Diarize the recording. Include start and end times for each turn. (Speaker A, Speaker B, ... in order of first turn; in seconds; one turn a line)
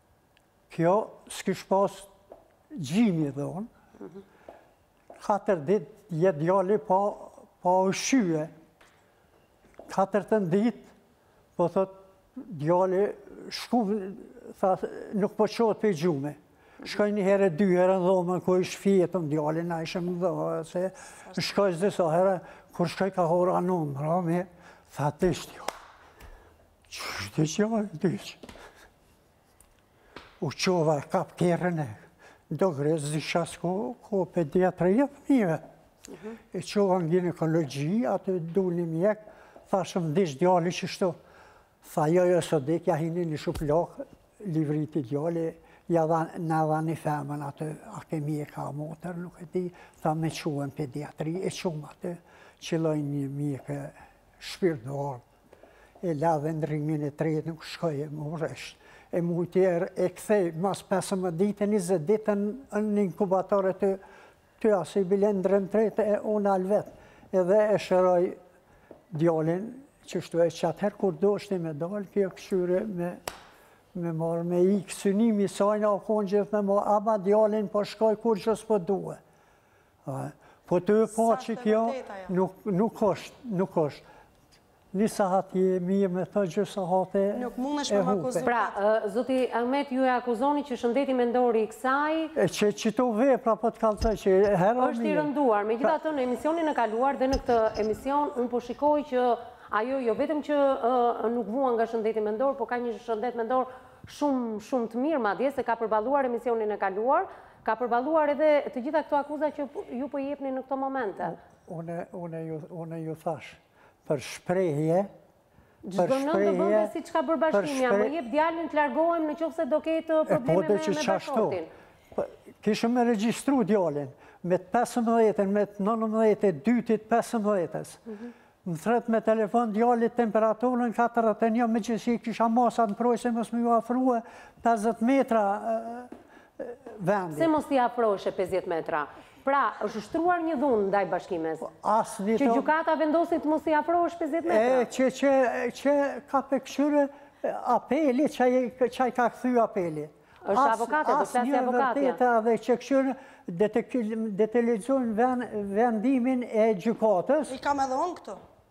Speaker A: 0.7-2.1
Speaker A: 2.7-3.7
Speaker A: 5.2-8.5
Speaker A: 9.9-10.9
Speaker A: 11.6-25.7
Speaker A: 26.9-28.4
Speaker A: 30.4-35.6
Speaker A: 36.5-41.2
Speaker A: 41.8-55.2
Speaker A: 56.0-64.0
Speaker A: 64.6-68.4
Speaker A: 69.1-73.2
Speaker A: 73.9-79.2
Speaker A: 80.0-84.0
Speaker B: 81.1-82.3
Speaker A: 84.9-88.5
Speaker B: 87.3-88.8
Speaker C: 88.5-92.3
Speaker A: 92.3-96.0
Speaker C: 94.8-111.4
Speaker A: 111.2-115.1
Speaker C: 115.8-121.7
Speaker A: 116.0-116.9
Speaker A: 117.5-118.1
Speaker A: 120.3-121.6
Speaker A: 122.1-128.0
Speaker A: 128.6-137.5
Speaker C: 137.3-141.7
Speaker A: 141.6-142.7
Speaker C: 142.4-144.9
Speaker A: 144.4-157.6
Speaker C: 150.4-152.2
Speaker B: 157.5-158.4